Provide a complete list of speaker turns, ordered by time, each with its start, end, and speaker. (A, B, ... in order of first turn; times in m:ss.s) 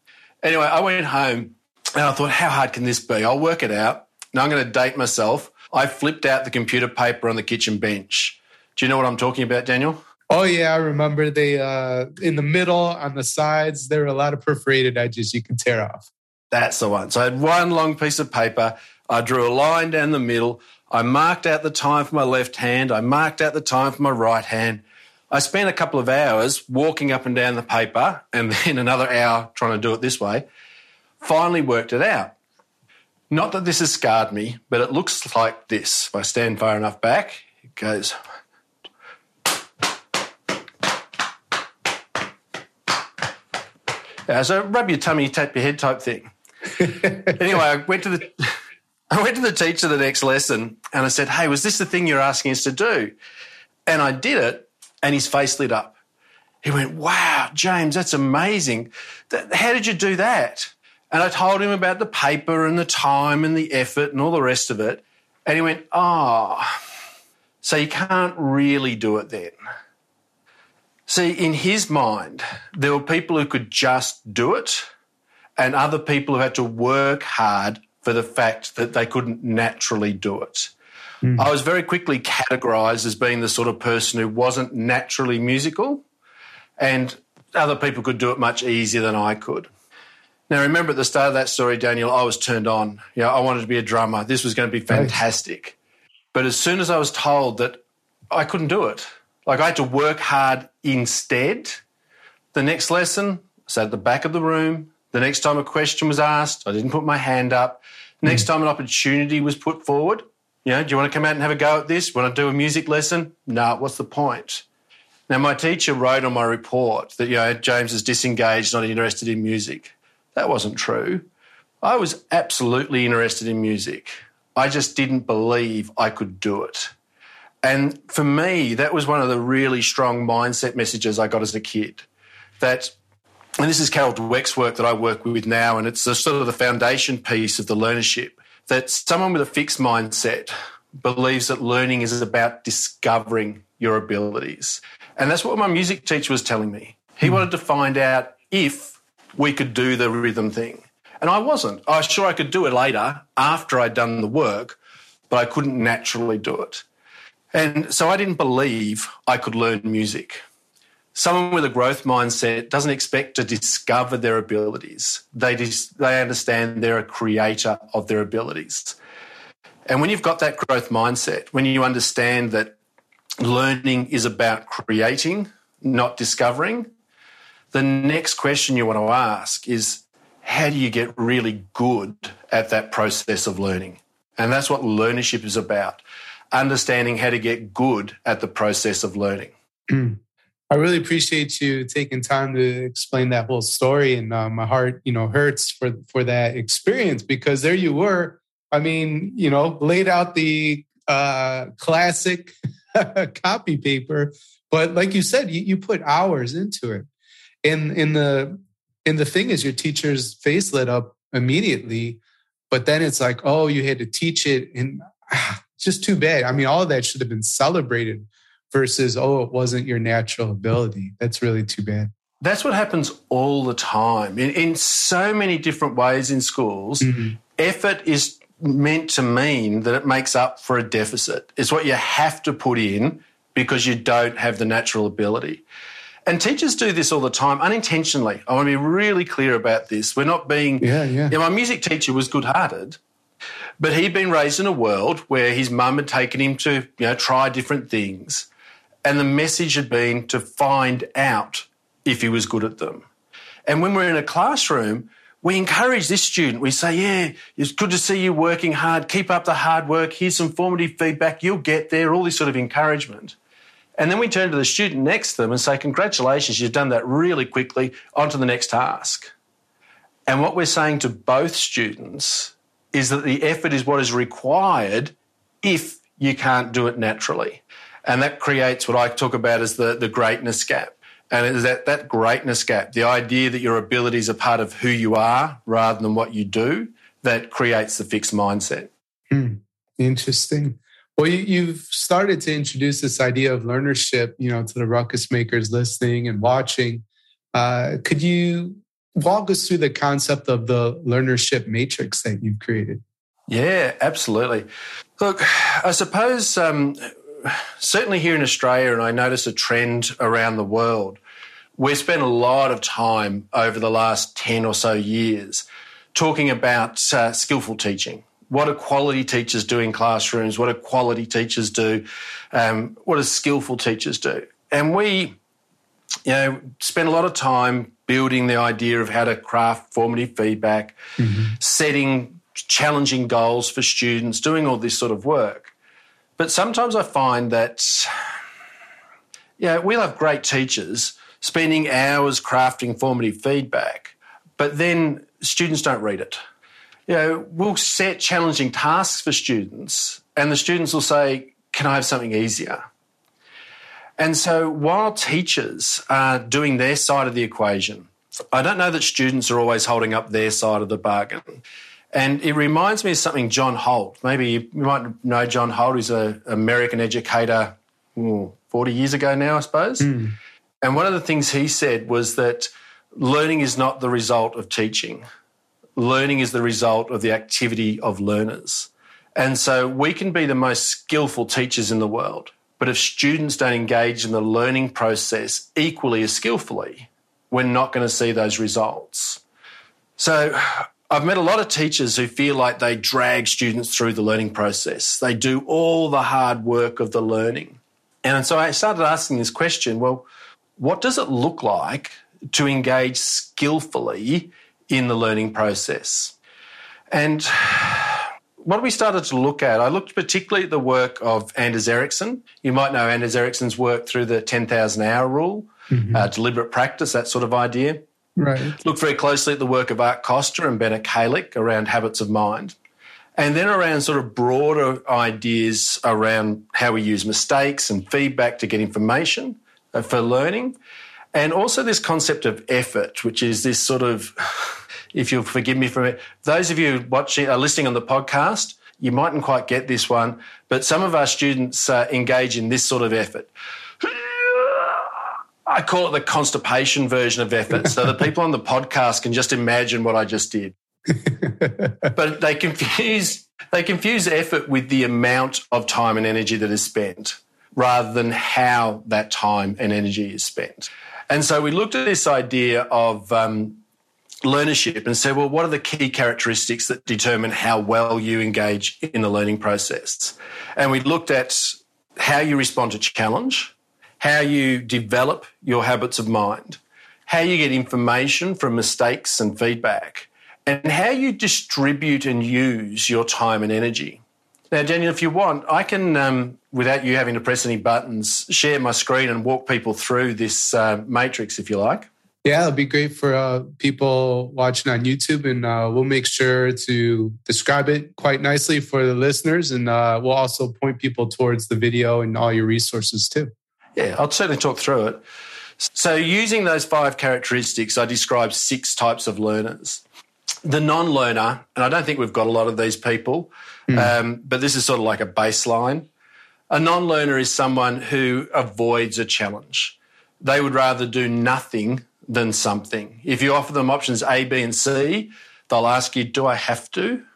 0:00.4-0:10.0 A
0:10.3-0:16.1 B
0:16.5-0:30.4 A
0:31.2-0:32.4 A
0:33.3-0:38.2 A
0:44.3-0:48.6 A
0:49.1-0:53.1 A
0:53.9-0:56.0 A
0:56.6-1:06.7 A
1:07.6-1:09.5 A
1:11.1-1:14.9 A
1:15.6-1:20.7 A
1:21.4-1:26.0 A
1:26.8-1:29.7 A
1:30.5-1:35.8 A
1:34.9-1:35.2 B
1:36.3-1:37.8 A
1:38.3-1:41.8 A
1:42.5-1:54.6 A
1:55.3-2:01.2 A
2:01.8-2:06.9 A
2:07.6-2:12.1 A
2:12.6-2:12.9 A
2:13.6-2:34.8 A
2:35.3-2:36.8 A
2:37.5-2:40.4 A
2:41.1-2:49.0 A
2:49.9-2:52.8 A
2:53.4-2:56.9 A
2:57.7-3:06.0 A
3:06.5-3:09.5 A
3:09.9-3:10.2 B
3:10.7-3:27.1 B
3:27.6-3:42.1 B
3:42.4-3:55.6 A
3:47.0-3:47.4 B
3:56.2-4:03.0 A
4:00.8-4:01.3 B
4:03.8-4:08.5 A
4:09.0-4:13.0 A
4:13.7-4:23.3 A
4:24.0-4:29.3 A
4:30.3-4:48.9 A
4:49.3-5:03.0 B
5:03.5-5:04.6 A
5:05.2-5:11.2 A
5:11.8-5:25.4 A
5:26.2-5:31.0 A
5:31.2-5:31.6 B
5:31.6-5:35.7 A
5:36.4-5:38.1 A
5:39.6-5:46.4 A
5:47.1-5:52.8 A
5:54.2-6:01.6 A
6:02.1-6:10.1 A
6:10.0-6:10.3 B
6:10.8-6:15.2 A
6:16.0-6:29.4 A
6:30.2-6:46.3 A
6:47.1-6:58.0 A
6:55.9-6:56.3 B
6:58.4-6:58.8 B
6:58.8-7:02.8 A
7:03.4-7:10.8 A
7:11.3-7:30.7 A
7:31.2-7:32.1 B
7:32.1-7:43.8 A
7:44.4-8:12.1 A
8:12.4-8:23.5 B
8:24.0-8:25.2 A
8:25.8-8:30.0 A
8:30.6-8:36.1 A
8:36.7-8:47.2 A